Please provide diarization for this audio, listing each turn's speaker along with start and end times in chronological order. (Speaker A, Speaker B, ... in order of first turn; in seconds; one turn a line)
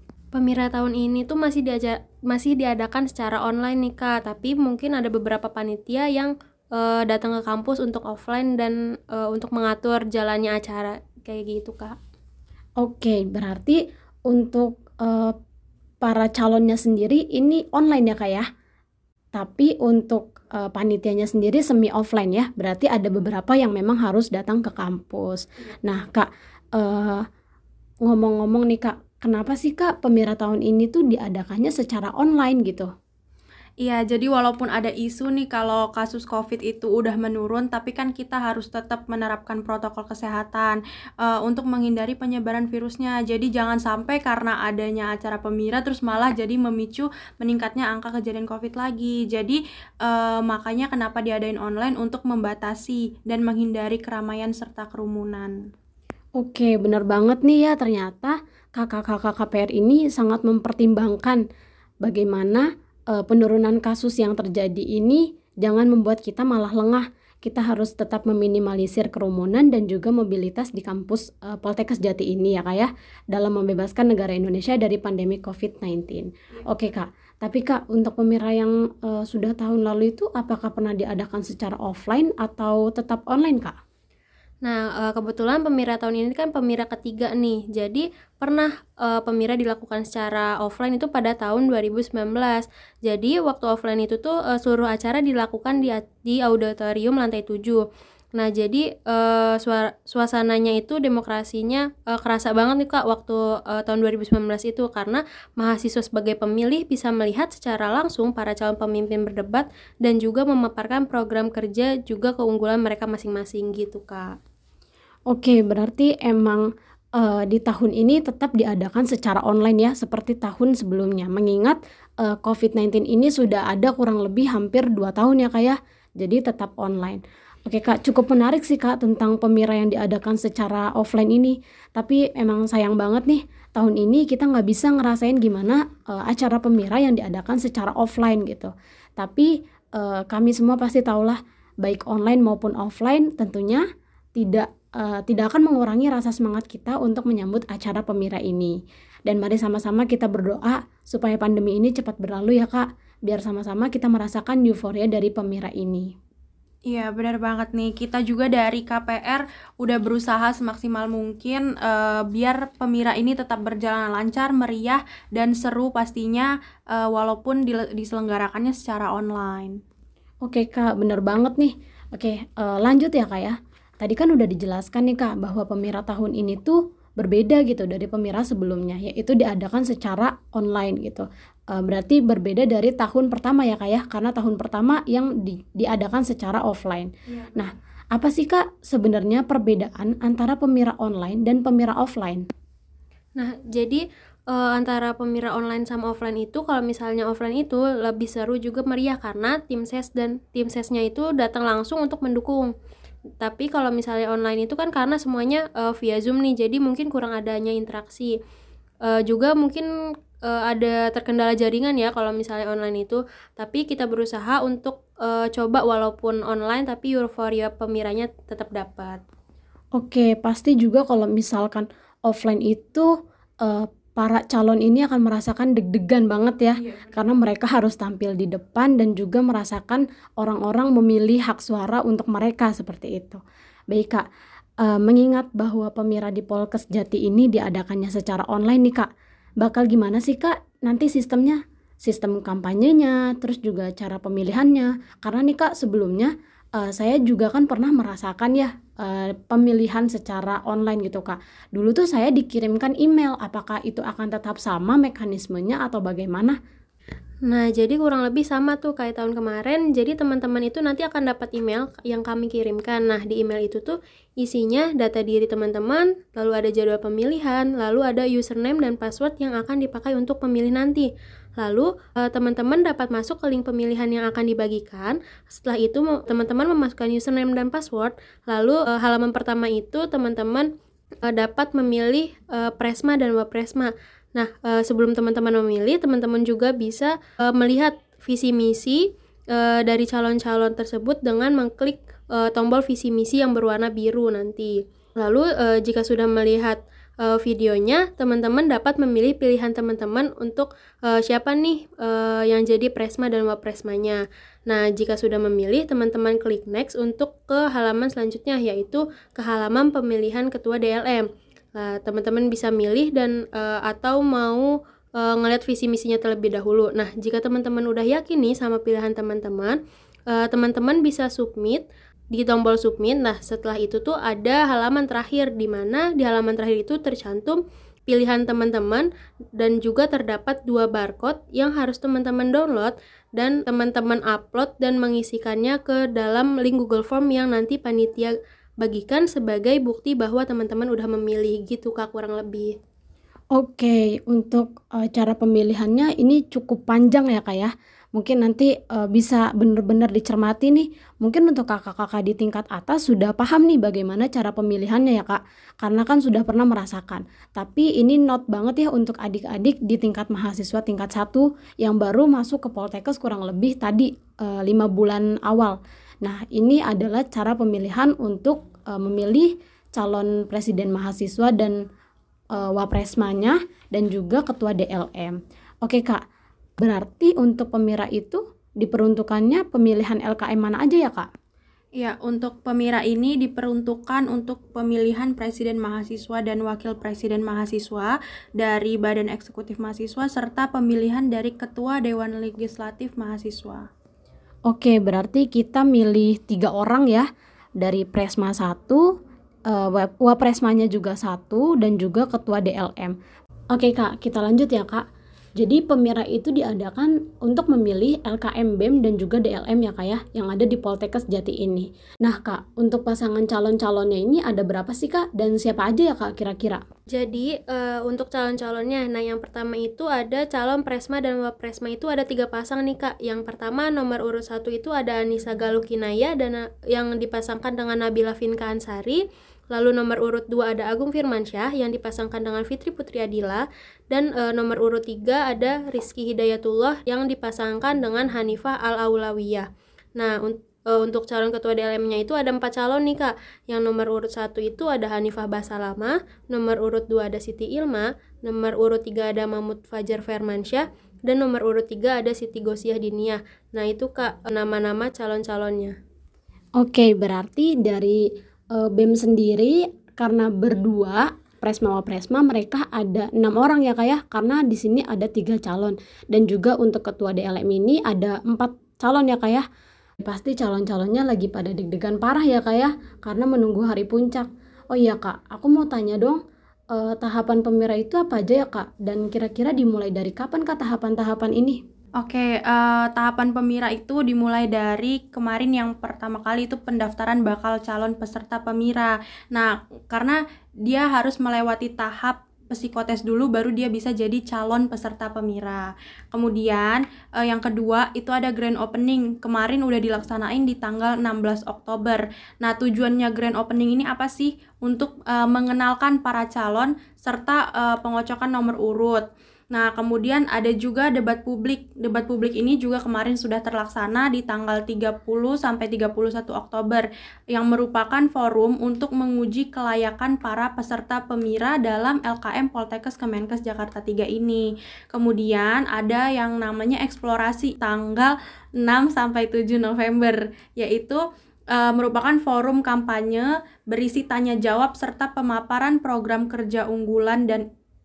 Speaker A: 0.3-12.0
Speaker B: 12.8-15.3
Speaker B: 16.0-18.5
Speaker B: 19.3-27.2
Speaker B: 28.0-32.9
Speaker C: 33.8-55.5
Speaker B: 56.4-61.4
Speaker B: 62.0-83.8
Speaker A: 84.6-97.8
Speaker A: 98.3-114.3
Speaker B: 115.3-143.8
Speaker B: 144.3-148.8
Speaker B: 149.3-156.1
Speaker C: 156.9-169.8
Speaker B: 170.4-192.4
Speaker C: 187.3-187.6
Speaker A: 193.3-202.7
Speaker A: 203.4-208.3
Speaker A: 209.1-209.9
Speaker A: 210.5-219.2
Speaker B: 220.0-223.1
Speaker B: 223.6-234.2
Speaker C: 226.8-227.3
Speaker B: 234.8-239.1
Speaker B: 239.6-256.6
Speaker A: 257.4-280.7
Speaker A: 281.3-319.8
Speaker A: 320.3-342.7
Speaker B: 343.5-371.8
Speaker B: 372.5-376.2
Speaker B: 376.8-381.3
Speaker C: 382.0-393.9
Speaker B: 394.7-399.1
Speaker B: 399.7-403.2
Speaker B: 403.7-405.0
Speaker B: 405.6-416.8
Speaker A: 417.1-455.9
Speaker B: 456.8-469.6
Speaker B: 470.2-476.4
Speaker B: 476.9-481.8
Speaker C: 482.2-531.2
Speaker C: 531.7-537.6